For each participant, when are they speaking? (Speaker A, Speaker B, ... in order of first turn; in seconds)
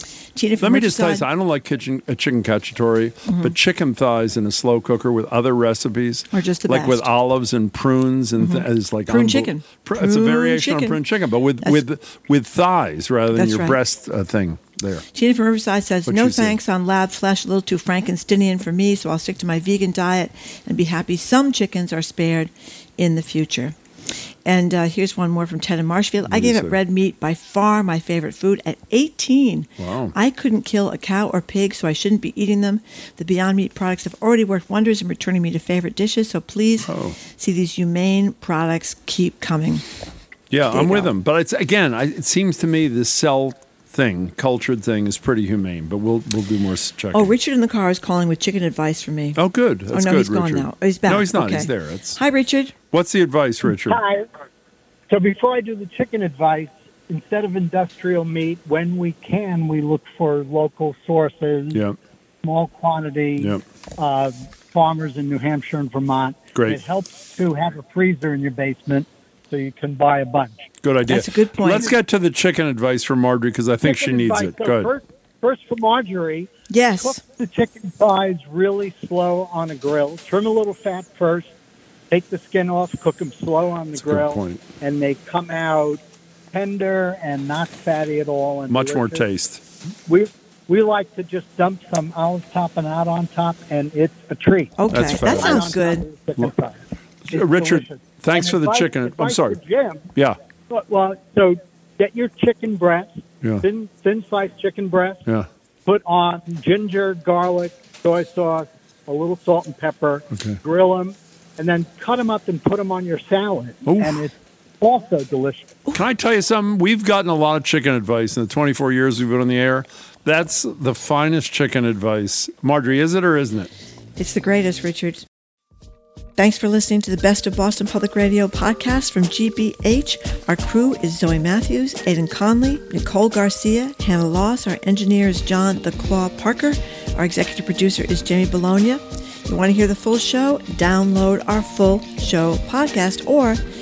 Speaker A: 0.3-1.3, 3.3-3.5, 6.3-7.1, 8.4-11.0, 13.3-13.8, 15.1-23.8, 24.4-39.8, 40.7-41.1, 47.1-52.8, 71.1-71.9, 76.7-77.2, 94.8-96.0, 124.2-125.2, 126.4-143.6
Speaker B: 0.6-15.1, 16.1-16.6, 26.3-26.8, 29.8-30.1, 36.9-37.2, 40.5-47.3, 49.4-52.2, 52.9-54.0, 63.4-63.6, 66.5-66.8, 70.8-74.9, 83.9-84.6, 88.7-89.6, 94.9-95.8, 97.3-99.6, 110.3-110.6, 113.9-114.2, 115.9-123.7
Speaker C: 53.7-54.3, 55.1-61.8, 62.4-70.7, 73.8-76.5, 77.0-81.5, 82.1-89.2, 90.1-100.1, 100.7-105.2, 105.8-115.7